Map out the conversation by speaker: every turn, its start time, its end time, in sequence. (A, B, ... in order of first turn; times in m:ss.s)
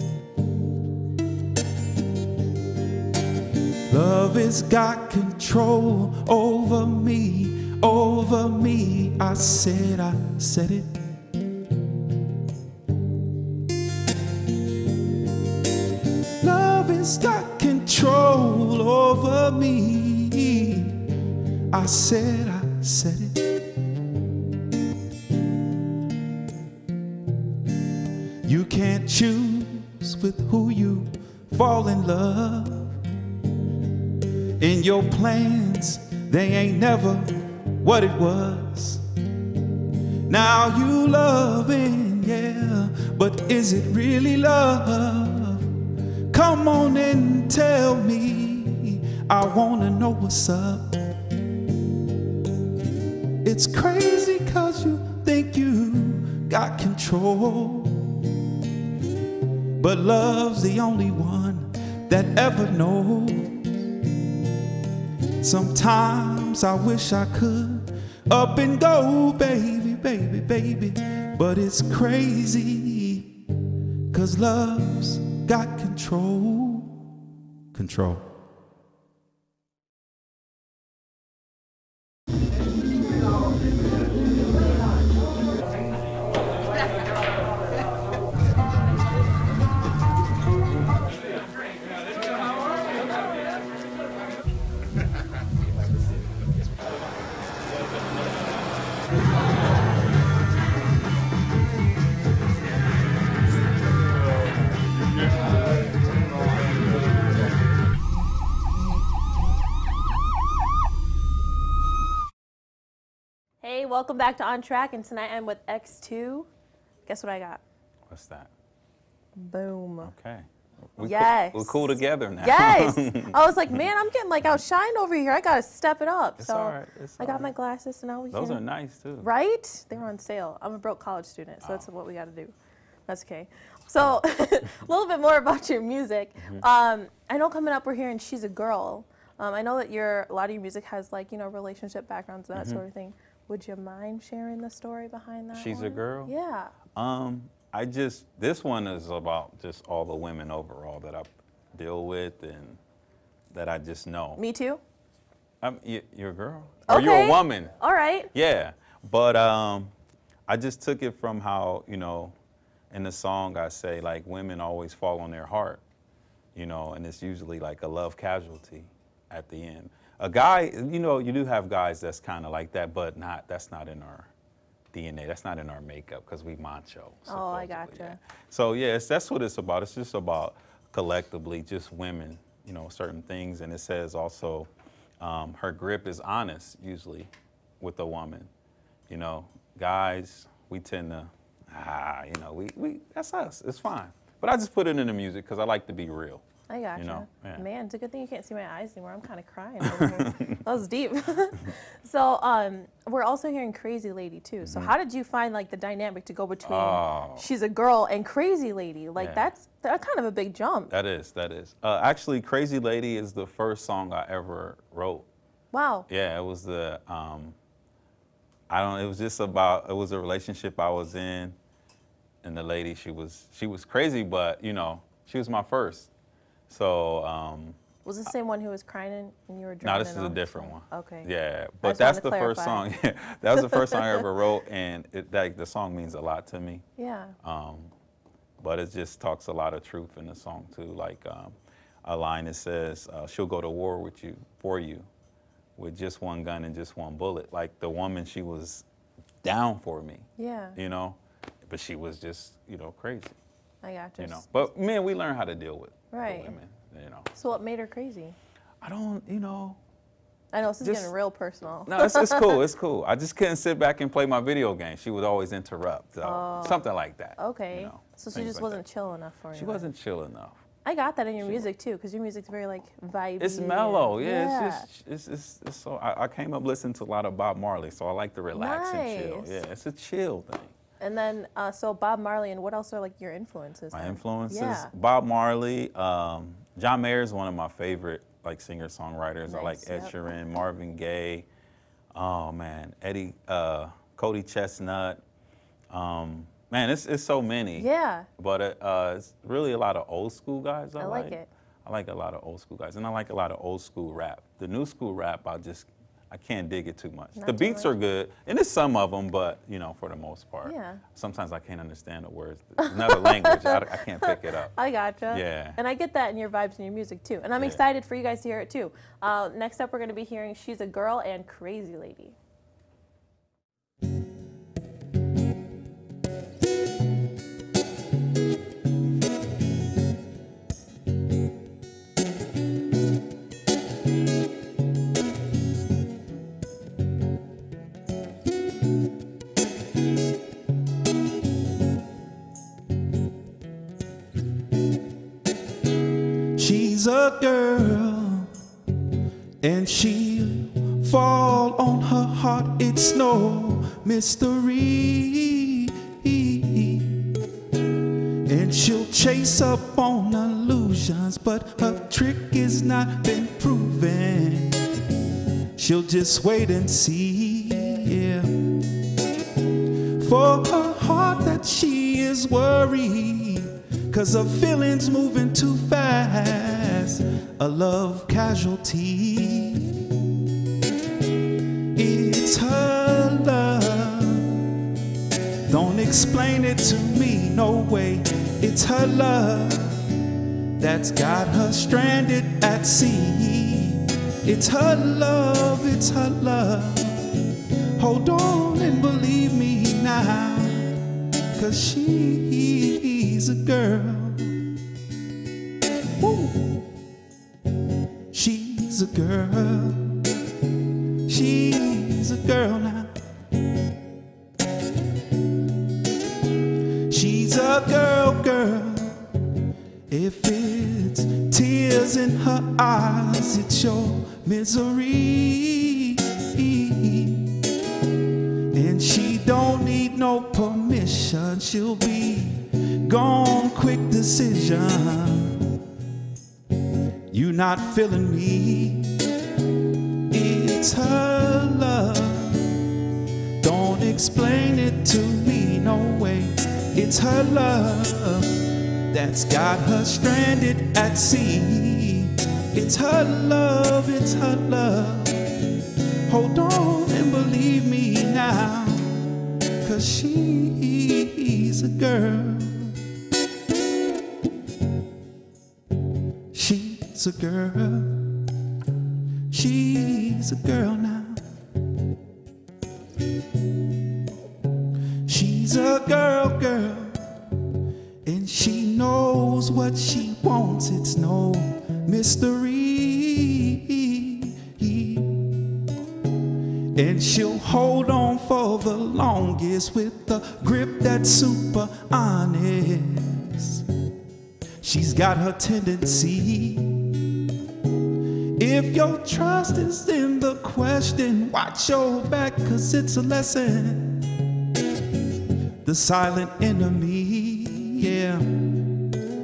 0:03.9-0:11.0 A
0:16.4-0:21.1 A
0:21.7-0:23.6 A
0:28.4-0:33.0 A
0:34.6-0:39.0 A
0:40.3-0:45.7 A
0:46.3-0:51.1 A
0:53.4-0:58.2 A
0:59.8-1:03.9 A
1:05.4-1:13.3 A
1:14.1-1:17.0 A
1:17.7-1:18.2 A
1:53.6-1:56.5 B
1:57.0-1:57.6 B
1:58.1-1:58.5 C
1:59.4-2:00.1 B
2:00.0-2:03.7 C
2:01.0-2:08.6 B
2:06.4-2:07.5 C
2:08.3-2:09.3 C
2:09.2-2:12.5 B
2:13.1-2:26.7 B
2:16.4-2:16.6 C
2:22.5-2:22.8 C
2:25.5-2:26.3 C
2:26.9-2:32.8 C
2:33.5-2:34.4 C
2:34.4-2:34.8 B
2:35.6-2:37.7 C
2:36.9-2:38.3 B
2:38.3-2:39.9 C
2:40.5-2:42.3 C
2:42.9-2:45.8 C
2:46.5-2:54.3 C
2:54.9-3:08.5 C
2:57.3-2:58.2 B
3:09.1-3:16.4 C
3:16.7-3:30.9 B
3:17.0-3:17.6 C
3:19.8-3:20.6 C
3:24.6-3:24.9 C
3:26.6-3:27.5 C
3:29.2-3:29.5 C
3:30.9-3:35.2 C
3:35.7-3:36.0 B
3:36.1-3:37.5 C
3:38.7-3:41.6 C
3:42.4-3:46.1 C
3:46.7-3:47.8 C
3:48.0-3:51.3 B
3:49.8-3:56.8 C
3:51.8-3:52.8 B
3:53.6-3:54.2 B
3:57.0-3:57.3 B
3:57.4-3:57.9 C
3:58.6-4:01.5 C
4:02.0-4:05.1 C
4:05.8-4:08.8 C
4:09.4-4:13.3 C
4:10.4-4:10.8 B
4:13.8-4:14.4 B
4:14.2-4:17.3 C
4:16.1-4:16.5 B
4:17.3-4:18.4 B
4:18.8-4:19.8 C
4:20.5-4:22.6 B
4:20.8-4:21.1 C
4:21.8-4:28.8 C
4:26.2-4:26.8 B
4:27.4-4:29.9 B
4:29.5-4:30.6 C
4:30.8-4:34.9 B
4:33.4-4:40.7 C
4:38.5-4:39.6 B
4:41.0-4:44.9 B
4:43.9-4:51.4 C
4:49.5-4:50.1 B
4:52.1-4:55.2 C
4:55.9-5:14.7 C
4:57.8-4:58.3 B
5:01.0-5:01.5 B
5:07.4-5:07.9 B
5:10.6-5:11.0 B
5:12.8-5:22.4 B
5:15.3-5:15.8 C
5:46.5-5:48.5 A
5:49.6-5:57.4 A
5:58.4-6:04.9 A
6:05.8-6:08.8 A
6:10.0-6:20.2 A
6:21.9-6:24.6 A
6:25.7-6:30.1 A
6:30.8-6:44.6 A
6:46.2-6:46.8 A
6:48.3-6:50.3 A
6:51.2-6:53.2 A
6:57.1-6:59.3 A
7:00.1-7:07.6 A
7:08.7-7:15.7 A
7:17.3-7:19.2 A
7:20.3-7:22.9 A
7:23.6-7:35.6 A
7:36.3-7:43.0 A
7:46.5-7:48.4 A
7:49.5-7:51.4 A
7:55.2-7:57.3 A
7:58.2-8:05.6 A
8:07.0-8:13.8 A
8:14.8-8:17.2 A
8:18.6-8:24.3 A
8:25.8-8:28.6 A